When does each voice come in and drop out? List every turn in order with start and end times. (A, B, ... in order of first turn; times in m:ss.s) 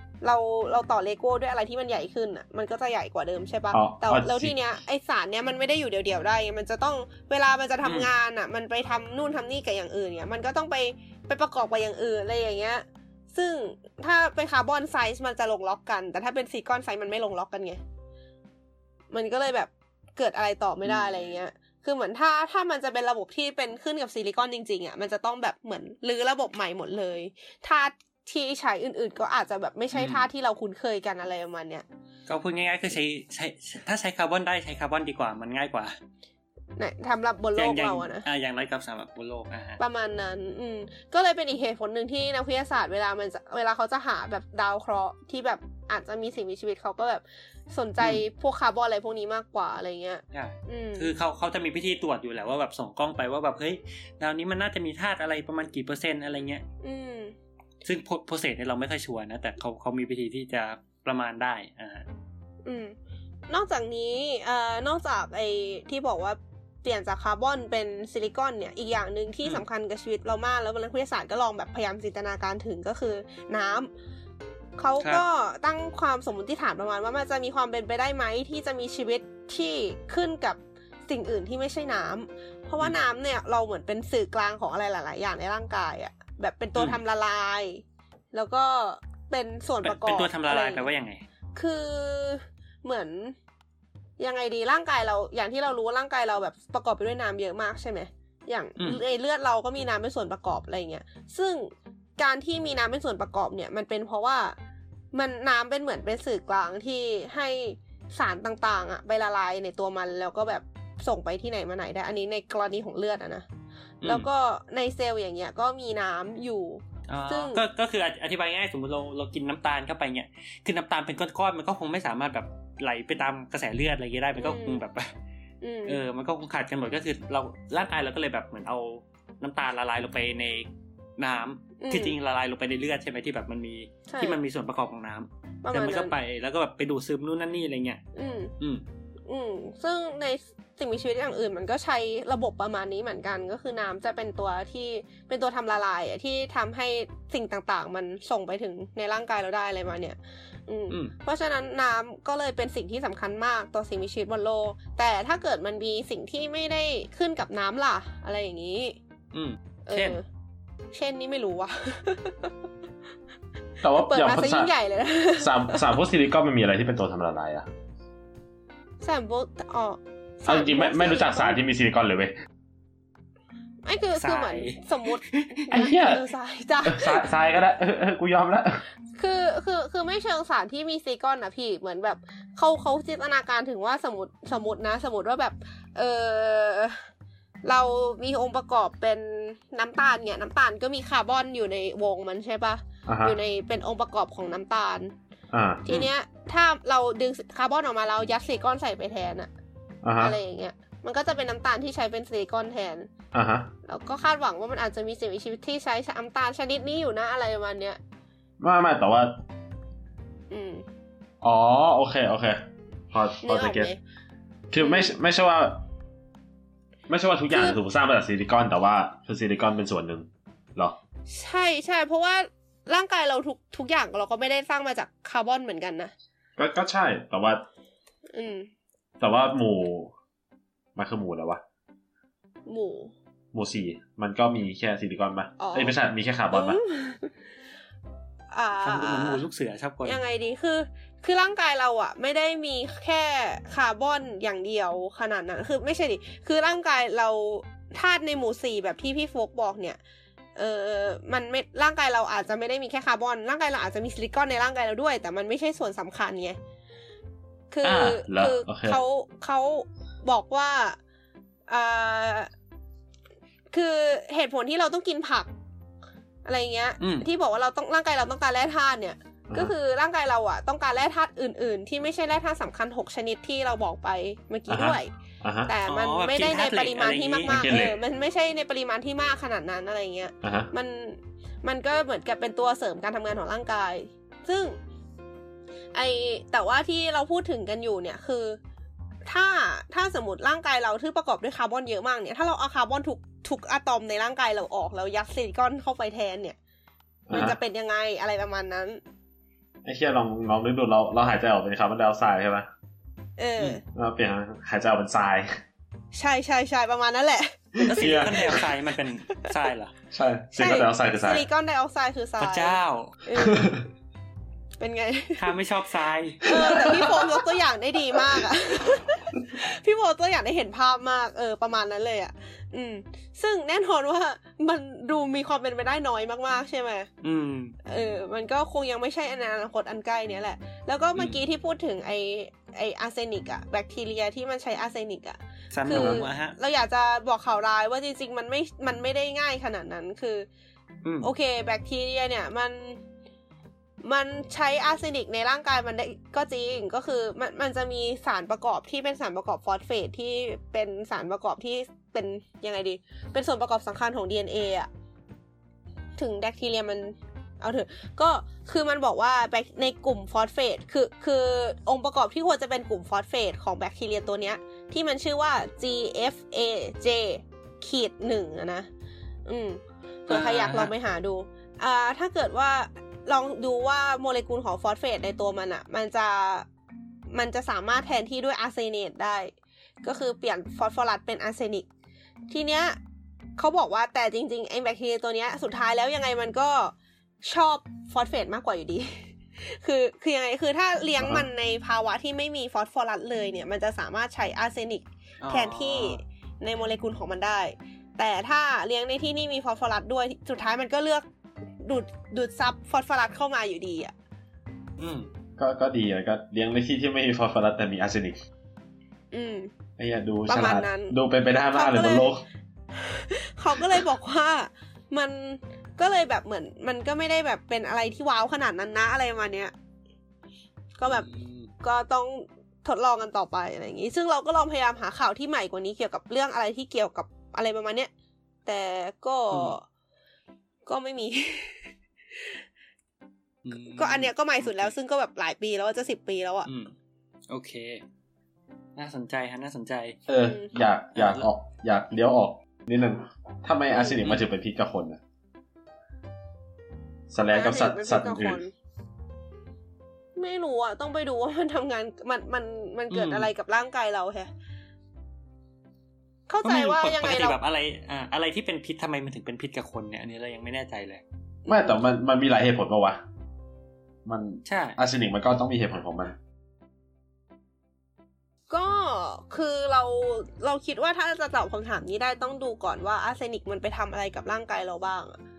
0:00.2-0:17.8 A
0:03.7-0:04.5 B
0:07.8-0:08.1 C
0:19.1-0:31.8 A
0:20.8-0:21.4 C
0:29.9-0:30.3 C
0:32.3-0:36.0 C
0:36.8-0:38.2 A
0:37.6-0:39.8 C
0:39.8-0:51.1 A
0:50.3-0:56.6 C
0:56.8-0:57.3 A
0:57.8-1:02.0 C
1:02.6-1:02.9 A
1:03.5-1:13.9 A
1:14.8-1:30.8 A
1:15.0-1:15.2 C
1:29.8-1:31.2 C
1:31.6-1:33.3 A
1:34.2-1:44.6 A
1:45.1-1:53.4 A
1:54.0-1:54.3 C
1:54.0-1:57.6 A
1:57.1-2:05.1 C
2:04.4-2:04.8 A
2:05.6-2:06.0 A
2:05.9-2:18.0 C
2:11.8-2:12.2 A
2:14.1-2:14.4 A
2:15.6-2:16.1 A
2:18.1-2:18.5 A
2:18.6-2:18.8 C
2:19.3-2:39.0 A
2:39.3-2:40.2 C
2:39.8-2:40.2 A
2:40.9-2:42.5 A
2:43.8-2:44.7 B
2:44.0-2:45.9 A
2:45.4-2:47.7 B
2:49.0-2:51.6 A
2:50.4-2:52.3 B
2:53.8-2:57.3 A
2:54.2-2:55.7 C
2:55.7-2:56.3 B
2:56.8-2:58.8 B
2:59.2-3:07.0 A
3:07.6-3:15.1 A
3:13.1-3:13.4 B
3:15.5-3:15.8 B
3:15.8-3:19.5 A
3:20.0-3:20.4 B
3:20.2-3:23.1 A
3:23.3-3:23.7 B
3:23.8-3:28.0 A
3:28.6-3:29.3 B
3:30.5-3:30.8 A
3:31.4-3:33.9 B
3:33.4-3:34.0 A
3:34.7-3:35.8 B
3:34.8-3:35.1 A
3:37.1-3:40.9 B
3:37.5-3:37.8 A
3:41.3-3:46.1 A
3:46.6-3:47.6 B
3:48.3-3:48.7 A
3:49.2-3:50.1 B
3:51.0-3:51.6 B
3:52.6-3:53.1 A
3:53.5-3:56.8 B
3:55.6-3:55.9 A
3:56.5-3:57.3 A
3:58.5-3:59.4 A
3:58.8-4:00.2 C
4:00.0-4:10.0 A
4:10.6-4:16.6 A
4:17.7-4:21.0 A
4:17.8-4:19.0 B
4:21.7-4:22.5 A
4:23.7-4:25.5 A
4:26.4-4:35.1 A
4:27.0-4:27.3 C
4:34.7-4:35.7 B
4:35.6-4:44.8 A
4:35.8-4:37.6 C
4:37.5-4:38.0 B
4:40.4-4:40.7 B
4:45.9-4:48.6 A
4:49.2-4:56.6 A
4:57.3-4:57.6 B
4:57.3-4:59.0 A
4:59.8-5:02.7 B
5:03.4-5:03.8 A
5:03.9-5:05.5 B
5:06.1-5:08.6 A
5:07.8-5:08.6 B
5:07.8-5:09.9 C
5:10.1-5:11.4 B
5:10.5-5:13.7 A
5:12.4-5:13.2 C
5:13.4-5:13.8 B
5:14.8-5:15.5 A
5:15.4-5:16.9 C
5:16.4-5:27.1 A
5:16.5-5:17.2 B
5:27.2-5:27.7 C
5:27.8-5:40.5 A
5:35.7-5:36.6 C
5:35.9-5:36.2 B
5:41.0-5:41.3 C
5:41.2-5:43.0 A
5:44.0-5:54.9 A
5:56.2-6:08.9 A
6:09.4-6:16.6 A
6:10.3-6:10.9 C
6:17.3-6:21.9 A
6:22.5-6:23.0 A
6:23.6-6:41.2 A
6:31.2-6:31.5 B
6:35.4-6:36.2 C
6:41.8-6:44.1 A
6:45.0-6:45.3 C
6:45.6-6:48.4 B
6:49.3-6:49.7 A
6:50.0-6:52.4 B
6:50.5-6:51.2 A
6:51.7-6:52.3 A
6:52.9-6:59.7 A
7:01.0-7:01.3 A
7:01.1-7:01.7 C
7:01.8-7:08.1 A
7:08.6-7:09.8 A
7:09.5-7:09.8 C
7:10.8-7:12.5 A
7:13.6-7:14.9 C
7:13.9-7:16.7 A
7:16.6-7:16.9 C
7:17.5-7:18.0 C
7:19.0-7:20.2 C
7:20.3-7:25.2 B
7:20.3-7:20.7 A
7:21.1-7:21.5 C
7:23.9-7:24.2 A
7:27.3-7:28.6 B
7:27.5-7:28.7 A
7:30.4-7:34.5 A
7:33.1-7:33.5 C
7:36.5-7:37.6 A
7:36.6-7:41.2 C
7:41.6-7:42.0 A
7:41.7-7:43.2 B
7:44.2-7:46.4 B
7:44.6-7:45.0 C
7:48.7-7:55.4 A